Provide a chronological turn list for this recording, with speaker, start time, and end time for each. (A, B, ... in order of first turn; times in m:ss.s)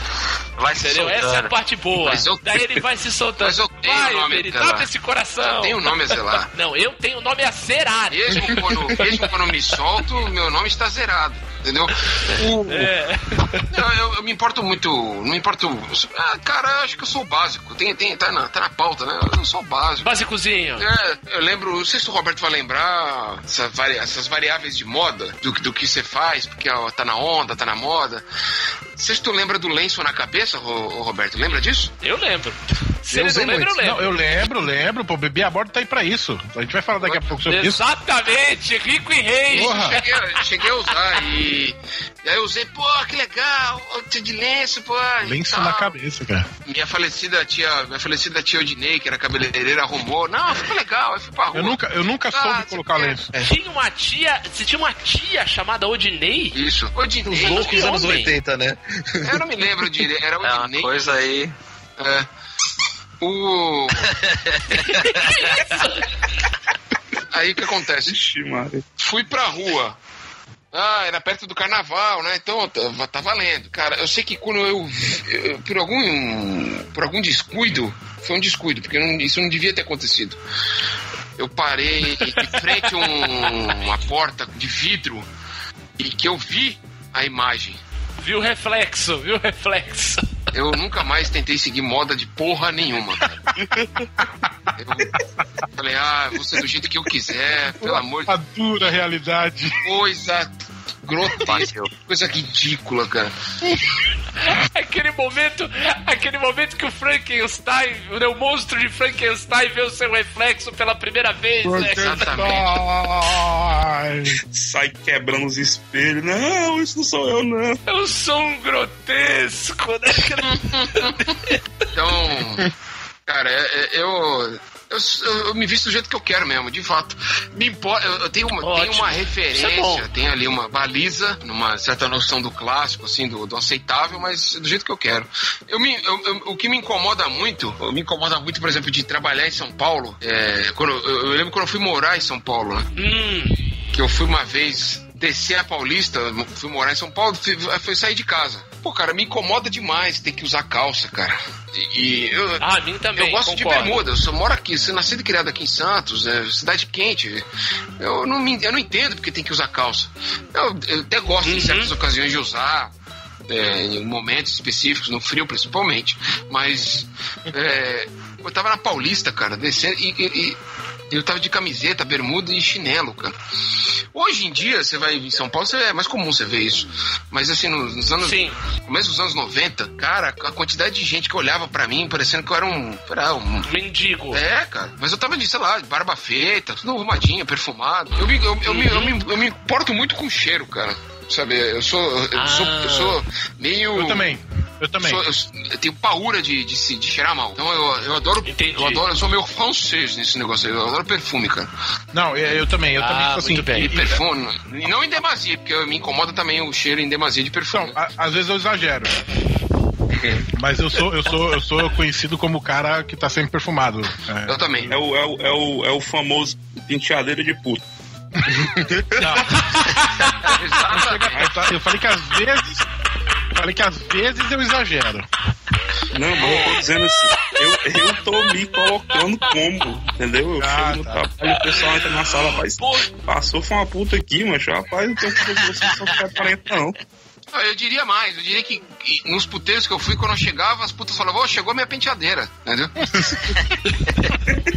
0:00.6-0:01.5 A
0:00.7-0:09.3 B
0:02.0-0:02.6 C
0:03.4-0:06.5 C
0:08.1-0:12.9 C
0:12.6-0:13.6 B
0:13.7-0:20.1 C
0:20.0-0:20.9 B
0:20.8-0:28.2 C
0:29.0-0:31.9 C
0:32.0-0:34.2 B
0:33.1-0:33.7 D
0:33.8-0:37.8 E
0:37.4-0:40.9 B
0:39.5-0:45.9 C
0:39.5-0:40.0 E
0:45.2-0:46.5 E
0:46.6-0:51.8 C
0:51.5-0:53.4 E
0:52.3-0:53.2 C
0:53.4-0:56.6 B
0:56.5-0:57.8 C
0:57.3-0:59.5 D
0:57.3-0:58.3 B
0:59.2-1:01.3 C
1:00.4-1:01.5 A
1:02.0-1:02.3 C
1:03.2-1:04.1 C
1:04.3-1:04.8 A
1:04.9-1:06.0 B
1:07.3-1:08.2 C
1:08.1-1:08.9 F
1:09.0-1:10.0 C
1:10.7-1:20.4 C
1:21.4-1:25.3 C
1:22.2-1:23.5 B
1:26.0-1:27.8 C
1:28.2-1:30.2 B
1:30.5-1:33.4 C
1:33.6-1:34.5 E
1:34.8-1:35.2 C
1:35.7-1:38.3 C
1:37.8-1:39.8 E
1:39.8-1:43.3 C
1:41.4-1:41.9 A
1:44.6-1:52.6 B
1:51.7-1:54.4 E
1:51.8-1:52.7 C
1:54.4-1:57.8 F
1:57.9-2:00.6 B
2:00.5-2:01.3 C
2:01.9-2:02.7 C
2:03.3-2:22.9 C
2:08.6-2:10.0 B
2:23.0-2:23.5 B
2:23.9-2:32.6 C
2:32.6-2:34.0 B
2:33.2-2:37.4 C
2:38.0-2:42.9 C
2:41.4-2:41.9 B
2:43.5-2:50.6 C
2:51.1-2:53.4 C
2:54.1-3:03.7 C
2:58.2-2:58.6 B
3:03.6-3:04.4 B
3:04.3-3:14.3 C
3:08.6-3:09.2 B
3:12.3-3:13.2 B
3:13.9-3:15.2 E
3:15.0-3:21.7 C
3:18.5-3:19.0 B
3:22.1-3:24.2 E
3:23.0-3:24.0 B
3:23.7-3:27.9 C
3:27.7-3:29.2 E
3:30.5-3:34.9 E
3:34.4-3:35.0 C
3:34.9-3:37.8 F
3:38.7-3:39.3 D
3:39.2-3:40.3 E
3:40.4-3:41.5 C
3:40.9-3:42.8 E
3:43.5-3:45.2 E
3:46.1-3:57.0 F
3:46.3-3:46.8 C
3:50.6-3:51.2 E
3:51.7-3:52.0 B
3:52.8-3:53.1 B
3:57.5-4:02.9 C